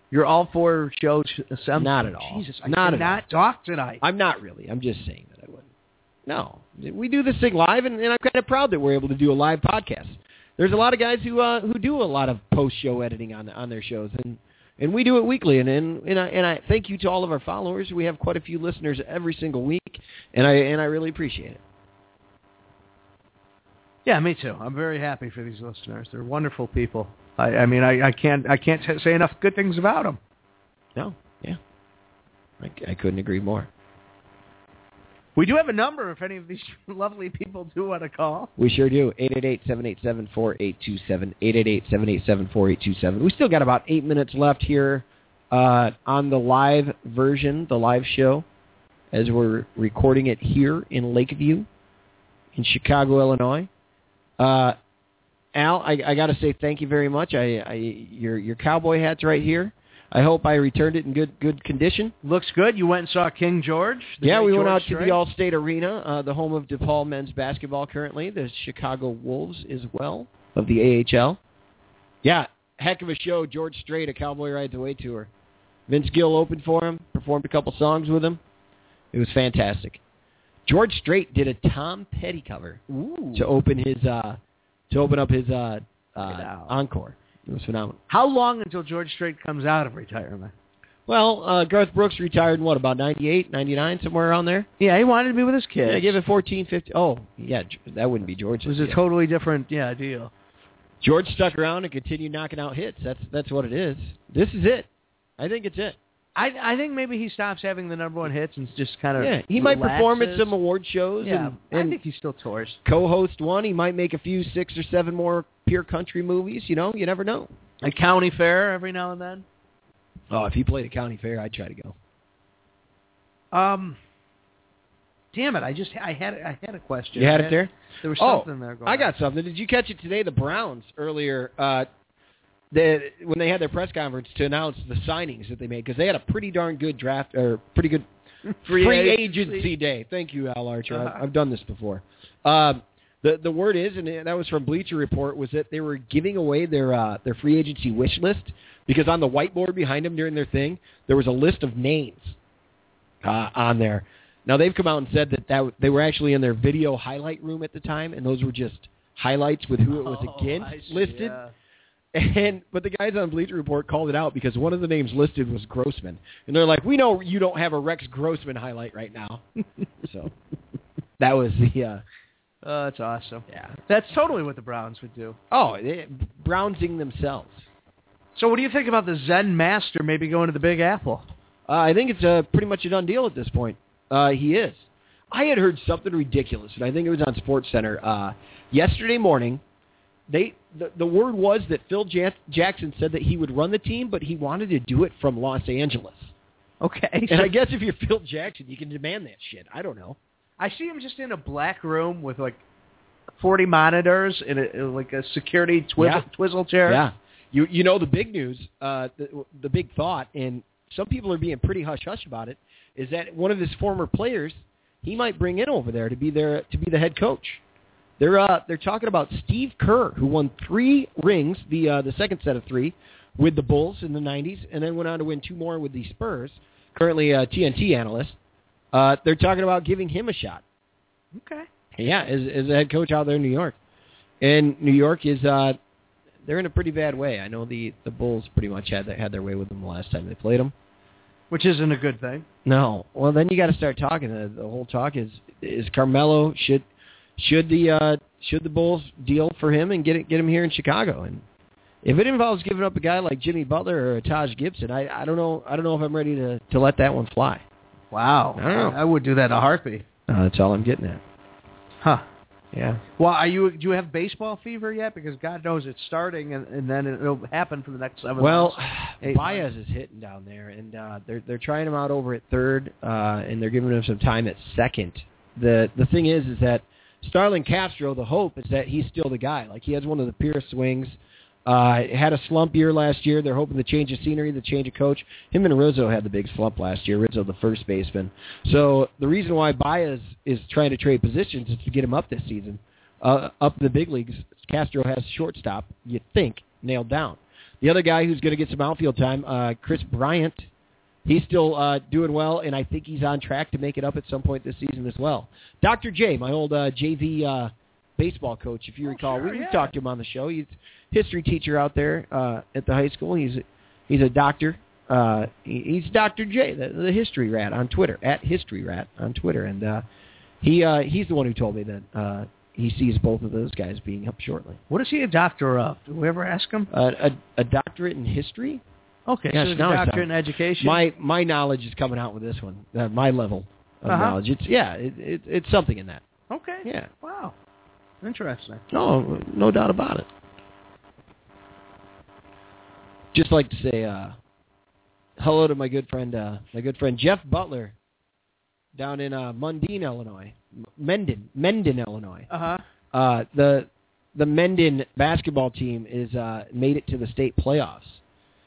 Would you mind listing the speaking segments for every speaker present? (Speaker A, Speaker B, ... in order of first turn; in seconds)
Speaker A: 0.1-4.0, 24.0-30.2, 35.4-38.5, 62.2-65.2, 82.9-83.5, 86.2-86.8, 88.1-90.5, 94.8-96.2, 98.6-100.3, 106.3-110.5, 111.2-112.8, 117.8-119.4, 123.5-124.0, 125.3-129.1, 138.5-139.7, 140.9-141.2, 159.9-161.5, 172.6-175.4, 178.3-181.3, 196.8-197.5, 200.6-202.6, 203.4-207.0, 231.3-231.7, 241.5-242.4, 258.1-260.0, 263.2-269.6, 309.1-309.9, 324.9-326.9, 329.3-331.0, 334.1-334.4, 336.5-337.5, 338.2-338.8, 352.5-352.8
Speaker B: 1.8-3.2, 4.0-5.7, 6.2-21.6, 30.9-31.6, 32.6-33.7, 38.6-48.5, 49.1-51.7, 52.5-53.7, 54.4-54.8, 55.5-62.1, 64.2-71.4, 72.2-75.3, 75.9-78.4, 79.1-80.0, 80.7-82.8, 83.3-88.0, 91.1-94.7, 95.8-99.0, 101.0-106.0, 109.2-112.0, 112.8-117.5, 120.3-121.9, 127.1-131.9, 132.7-138.1, 138.6-152.4, 153.2-161.4, 162.1-169.4, 170.0-170.3, 171.2-172.0, 173.5-173.8, 175.5-177.7, 181.7-189.6, 190.3-196.3, 197.3-200.2, 206.0-206.3, 206.8-217.6, 218.2-228.4, 228.9-230.6, 232.0-233.8, 234.4-235.8, 236.4-240.7, 242.7-246.8, 247.4-251.4, 252.0-257.6, 258.6-259.0, 260.3-261.2, 262.7-263.0, 268.4-281.1, 281.6-300.7, 301.2-320.0, 320.6-324.8, 326.9-328.8, 329.5-336.2, 336.8-337.1, 338.9-340.3, 343.3-344.4, 345.4-347.9, 348.9-352.5, 353.1-358.2